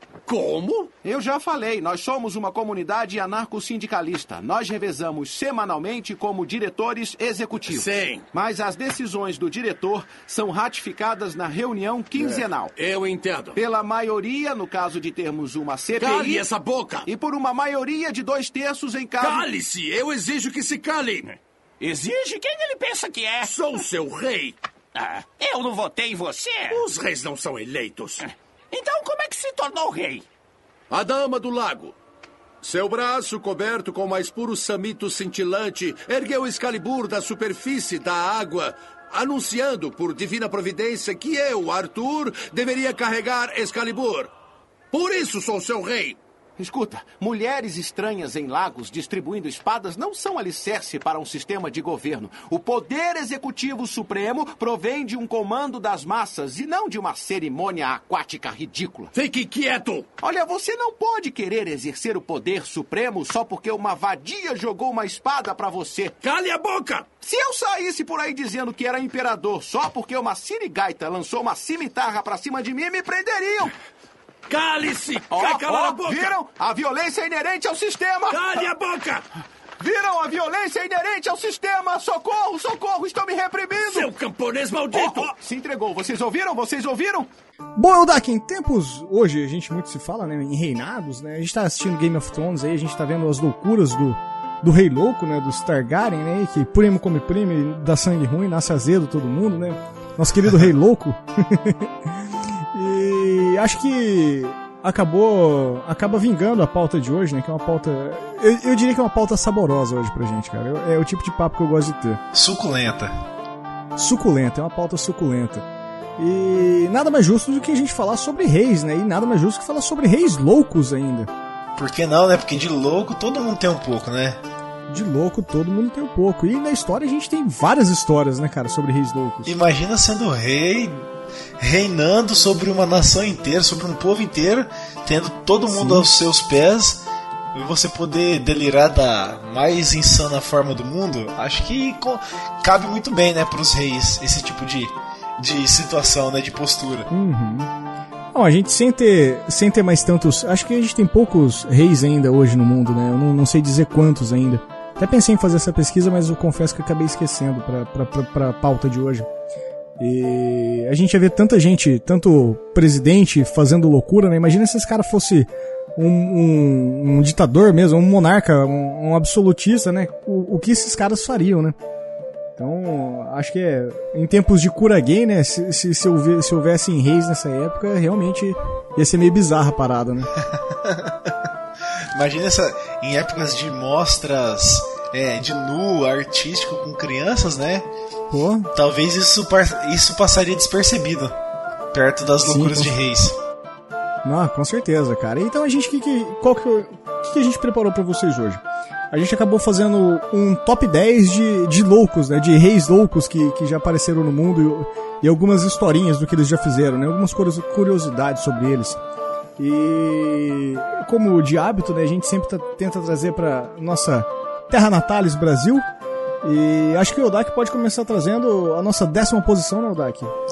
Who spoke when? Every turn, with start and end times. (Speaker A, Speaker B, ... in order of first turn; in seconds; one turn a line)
Speaker A: 0.3-0.9
Speaker B: 1.0-12.7
Speaker A: 7.7-8.2
Speaker A: 12.2-13.6
Speaker B: 13.6-16.5
Speaker A: 16.0-17.1
Speaker B: 17.1-19.5
Speaker A: 19.2-21.4
Speaker A: 23.4-25.1
Speaker C: 25.4-26.6
Speaker A: 26.7-28.3
Speaker C: 28.7-30.2
Speaker A: 30.9-32.0
Speaker A: 32.6-44.3
Speaker A: 44.9-46.2
Speaker B: 46.6-59.1
Speaker A: 59.1-60.1
Speaker B: 60.2-66.2
Speaker A: 66.2-67.1
Speaker B: 67.2-73.7
Speaker A: 74.5-76.3
Speaker B: 75.3-78.7
Speaker A: 78.3-79.2
Speaker B: 79.8-84.1
Speaker A: 83.8-85.3
Speaker B: 84.9-87.3
Speaker D: 87.8-112.2
Speaker E: 112.3-113.1
Speaker D: 114.0-121.3
Speaker E: 121.8-124.4
Speaker D: 124.9-129.5
Speaker E: 129.4-131.1
Speaker E: 131.6-137.0
Speaker D: 135.7-136.1
Speaker E: 137.5-147.1
Speaker D: 147.1-147.7
Speaker D: 148.3-159.3
Speaker D: 160.0-171.8
Speaker D: 172.6-180.3
Speaker E: 180.4-181.4
Speaker E: 182.1-187.9
Speaker D: 188.3-188.7
Speaker E: 188.7-191.4
Speaker E: 191.9-193.4
Speaker D: 192.4-192.9
Speaker D: 194.2-209.0
Speaker D: 209.6-215.8
Speaker D: 216.4-220.3